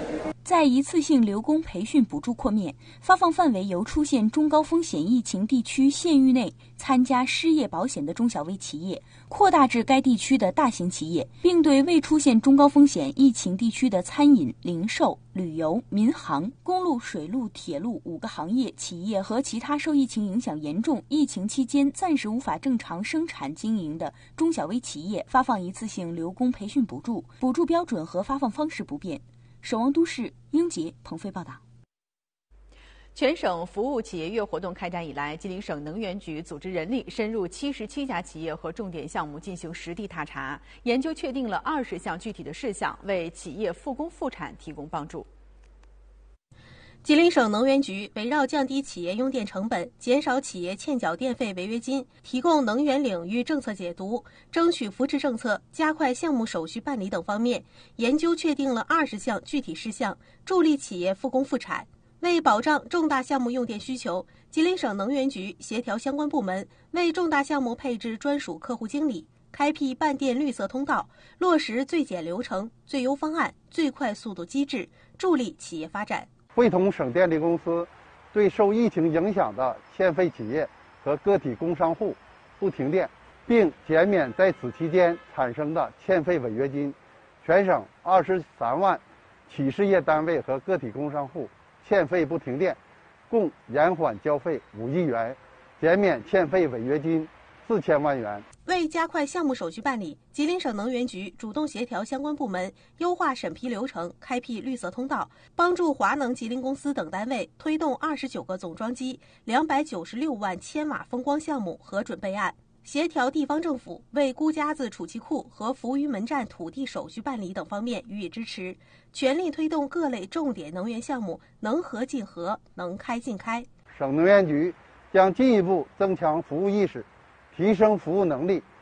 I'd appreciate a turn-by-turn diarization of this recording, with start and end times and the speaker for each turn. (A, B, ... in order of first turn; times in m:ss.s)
0:00.4-0:31.6 A
0:33.1-0:45.3 B
0:47.0-1:16.3 C
1:16.5-1:32.8 D
1:33.3-1:38.4 D
1:38.7-2:03.7 C
2:03.9-2:08.6 D